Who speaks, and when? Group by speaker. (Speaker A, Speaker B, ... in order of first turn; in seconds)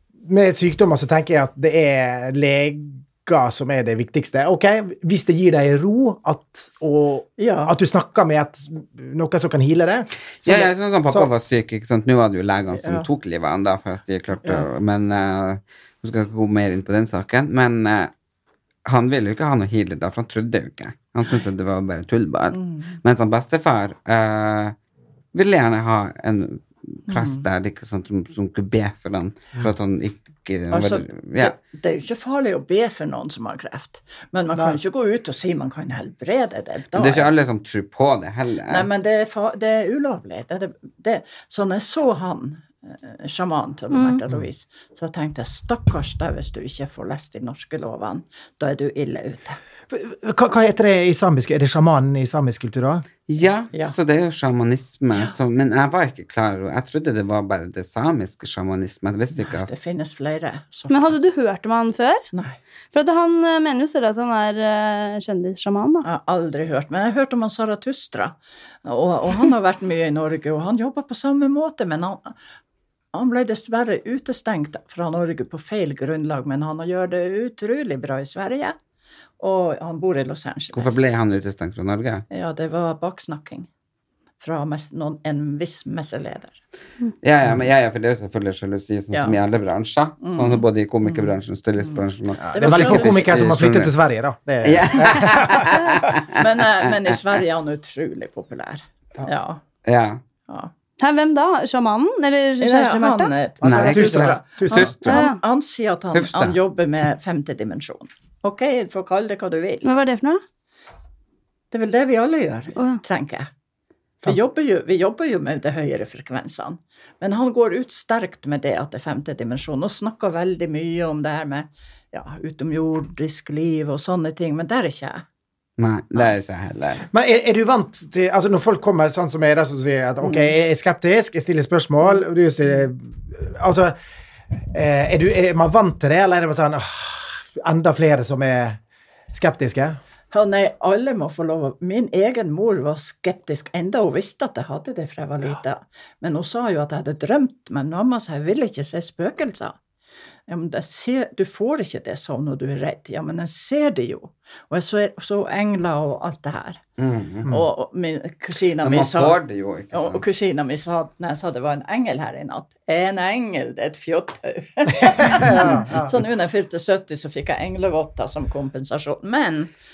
Speaker A: 0.2-11.3, 49.9-53.1, 92.4-95.8, 103.6-105.0, 127.1-133.9, 134.7-138.8, 139.3-140.0, 165.1-166.2
Speaker B: 7.4-7.7, 12.8-13.1, 22.5-23.0, 27.1-27.4, 30.7-37.3, 38.7-49.6, 59.4-61.2, 62.3-62.6, 66.0-68.3, 68.8-72.3, 73.1-78.8, 79.4-81.0, 82.3-83.7, 84.4-86.6, 89.1-89.4, 90.2-93.4, 96.3-99.6, 102.6-109.9, 111.7-113.5, 114.2-125.2, 130.2-130.5, 140.3-149.8, 150.5-156.8, 157.5-159.4, 159.9-169.7
Speaker C: 10.4-18.1, 18.9-24.8, 25.3-31.5, 36.9-38.9, 53.3-59.7, 80.7-82.3, 87.2-93.9, 94.6-96.3, 99.8-100.2, 103.6-105.3, 106.1-106.6, 125.8-127.0, 157.0-157.5, 158.8-160.2
Speaker D: 43.9-44.2, 60.9-62.2, 62.9-66.0, 101.0-103.3, 105.0-105.4, 109.8-110.4